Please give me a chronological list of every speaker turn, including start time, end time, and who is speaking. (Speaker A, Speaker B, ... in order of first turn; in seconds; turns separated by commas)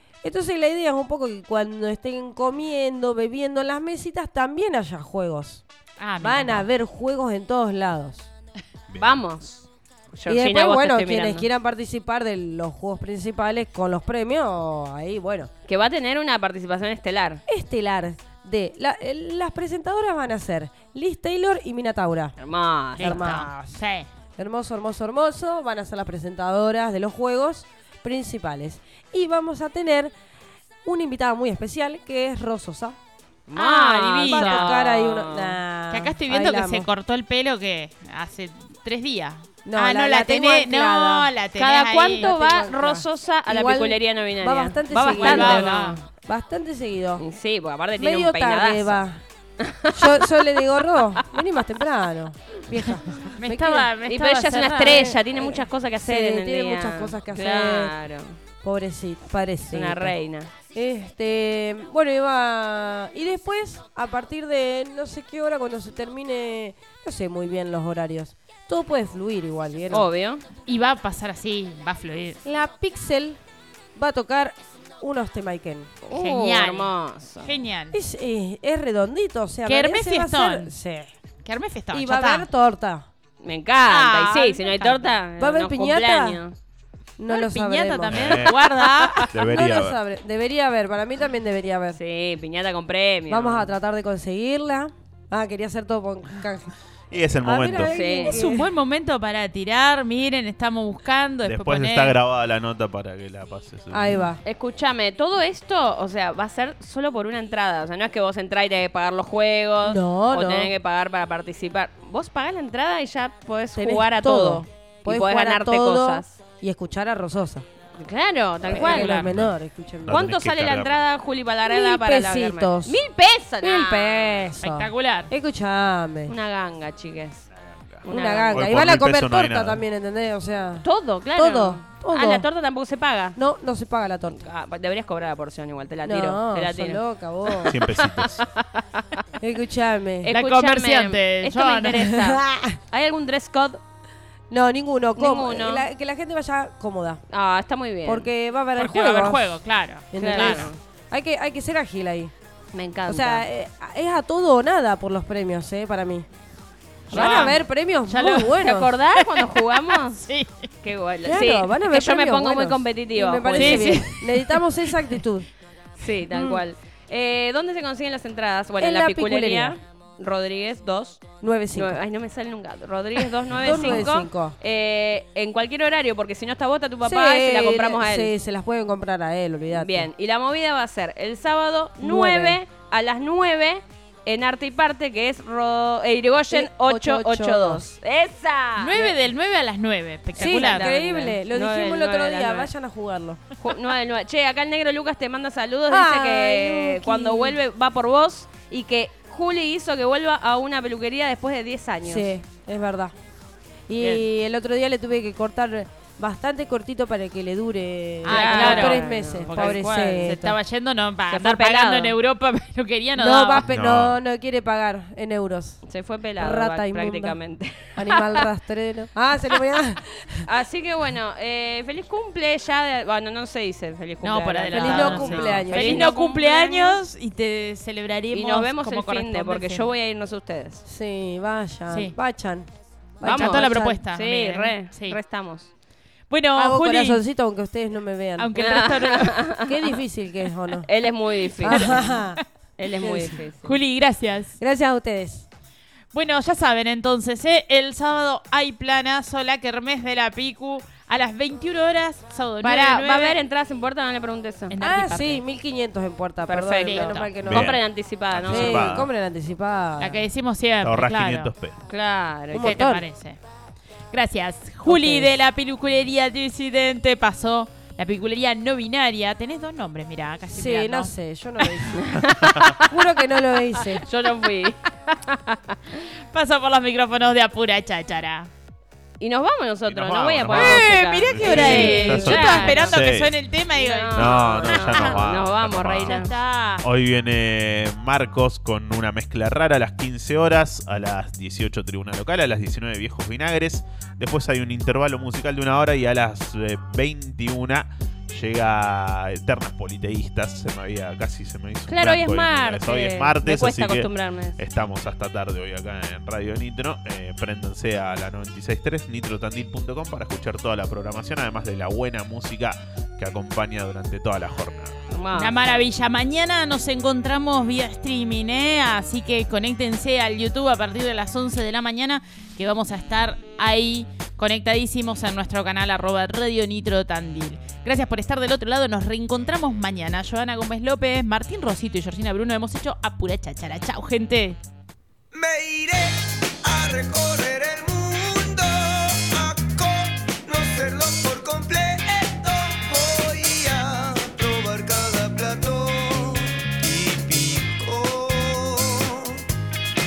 Speaker A: 0.2-5.6, Speaker B: 6.0-6.7, Speaker A: 6.2-8.3, Speaker C: 8.9-9.2, Speaker D: 9.0-11.5, Speaker A: 10.3-15.5, Speaker D: 15.6-17.4, Speaker A: 17.5-22.4, Speaker D: 22.4-23.3, Speaker B: 23.0-24.1, Speaker A: 23.0-23.7, Speaker A: 24.4-30.1, Speaker A: 30.9-33.0, Speaker D: 33.5-35.6, Speaker B: 33.5-34.8, Speaker A: 34.2-36.9, Speaker B: 35.9-42.3, Speaker A: 39.6-41.3, Speaker D: 41.5-46.0, Speaker A: 42.2-47.2, Speaker B: 45.0-46.0, Speaker D: 47.2-49.0, Speaker A: 48.0-49.2, Speaker D: 49.6-51.2, Speaker A: 49.9-53.9, Speaker B: 53.2-55.2, Speaker D: 54.1-58.4, Speaker A: 55.4-57.9, Speaker A: 58.6-60.1, Speaker D: 59.7-60.5, Speaker A: 60.7-70.1, Speaker D: 69.9-70.4, Speaker B: 70.6-72.4, Speaker A: 72.4-73.4, Speaker A: 74.0-75.9, Speaker D: 76.0-77.5, Speaker B: 76.1-78.0, Speaker A: 77.9-81.1, Speaker B: 79.6-80.7, Speaker B: 81.4-82.5, Speaker A: 81.9-83.1, Speaker D: 83.4-86.5, Speaker B: 83.9-85.0, Speaker A: 85.4-86.4, Speaker A: 87.2-88.5, Speaker B: 87.3-89.3, Speaker C: 88.1-88.6, Speaker D: 88.5-89.2, Speaker C: 89.3-90.0, Speaker A: 89.3-92.0, Speaker D: 91.9-93.7, Speaker A: 93.3-96.7, Speaker C: 97.1-98.0, Speaker A: 97.4-98.7, Speaker D: 97.9-98.4, Speaker B: 98.2-102.2, Speaker C: 101.4-104.3, Speaker A: 103.9-104.4, Speaker D: 104.4-116.3, Speaker A: 109.8-110.7, Speaker A: 113.8-117.6, Speaker D: 118.0-119.2, Speaker A: 118.7-120.2, Speaker B: 118.8-119.3, Speaker C: 119.2-119.5, Speaker C: 120.0-121.0, Speaker D: 120.1-124.5, Speaker A: 121.7-123.0, Speaker A: 123.6-126.3, Speaker B: 124.6-125.3, Speaker D: 126.2-127.4, Speaker C: 127.6-129.9, Speaker D: 128.0-128.8, Speaker A: 128.1-132.4, Speaker D: 130.8-133.4, Speaker A: 133.4-134.4, Speaker D: 134.3-139.2, Speaker A: 136.0-137.8, Speaker C: 137.6-138.4, Speaker A: 139.4-140.3, Speaker D: 140.2-143.8, Speaker B: 140.3-142.1, Speaker A: 142.0-142.8, Speaker A: 144.5-147.2, Speaker D: 145.2-145.9, Speaker D: 147.3-148.3, Speaker A: 148.0-149.6, Speaker B: 148.8-150.7, Speaker A: 150.1-152.3, Speaker D: 150.2-150.8, Speaker D: 152.7-153.4, Speaker A: 153.1-156.2, Speaker D: 157.1-157.6, Speaker B: 157.1-158.6, Speaker A: 157.1-158.9, Speaker D: 158.5-160.3, Speaker B: 159.2-160.7, Speaker D: 160.8-164.4, Speaker A: 161.2-165.5, Speaker B: 163.5-164.2, Speaker D: 166.0-178.3, Speaker A: 166.3-166.6, Speaker A: 168.8-169.8, Speaker A: 171.4-172.0, Speaker A: 173.5-174.6, Speaker A: 177.0-180.1, Speaker D: 179.7-189.2, Speaker A: 182.0-182.6, Speaker A: 186.5-187.9, Speaker B: 188.8-190.9, Speaker D: 190.4-192.7, Speaker A: 190.4-193.4, Speaker D: 193.6-202.3, Speaker A: 195.9-197.6, Speaker A: 202.0-203.1, Speaker A: 203.9-210.6, Speaker B: 208.2-213.7, Speaker D: 208.3-210.4, Speaker D: 211.3-212.2, Speaker A: 213.2-215.8, Speaker C: 213.6-214.2, Speaker D: 215.9-218.4, Speaker A: 216.4-217.4, Speaker A: 217.9-220.4, Speaker D: 220.5-227.0, Speaker B: 224.2-229.9, Speaker A: 224.7-226.1, Speaker D: 228.3-230.8, Speaker A: 230.9-232.7, Speaker B: 231.9-232.2, Speaker A: 233.2-234.0, Speaker D: 233.2-235.7, Speaker B: 233.2-235.2, Speaker B: 236.3-237.2, Speaker A: 236.6-238.5, Speaker B: 238.4-239.4, Speaker D: 238.6-239.9, Speaker A: 239.6-240.9, Speaker D: 240.8-242.2, Speaker A: 241.6-243.4, Speaker B: 241.7-242.4, Speaker D: 242.8-243.8, Speaker B: 243.6-244.5, Speaker A: 244.6-245.5, Speaker B: 246.1-253.4, Speaker D: 252.6-254.8, Speaker B: 254.7-255.4, Speaker A: 254.8-257.8, Speaker D: 256.4-259.0, Speaker B: 256.8-257.3, Speaker C: 257.4-259.1, Speaker A: 258.4-260.2, Speaker B: 260.0-261.5, Speaker C: 260.8-261.8, Speaker D: 261.9-262.8, Speaker A: 262.5-263.1, Speaker B: 262.6-263.4, Speaker B: 264.1-271.1, Speaker A: 264.9-265.3, Speaker A: 270.5-272.0, Speaker D: 271.9-275.7, Speaker A: 272.9-274.0, Speaker B: 276.3-278.5, Speaker D: 279.2-283.1, Speaker C: 279.9-283.4, Speaker B: 280.5-285.2, Speaker A: 281.6-281.9, Speaker D: 283.7-286.3, Speaker C: 284.1-286.2, Speaker B: 286.0-286.9, Speaker C: 286.8-314.9, Speaker D: 301.9-304.6, Speaker D: 315.1-315.6, Speaker B: 315.3-334.6, Speaker E: 335.4-349.3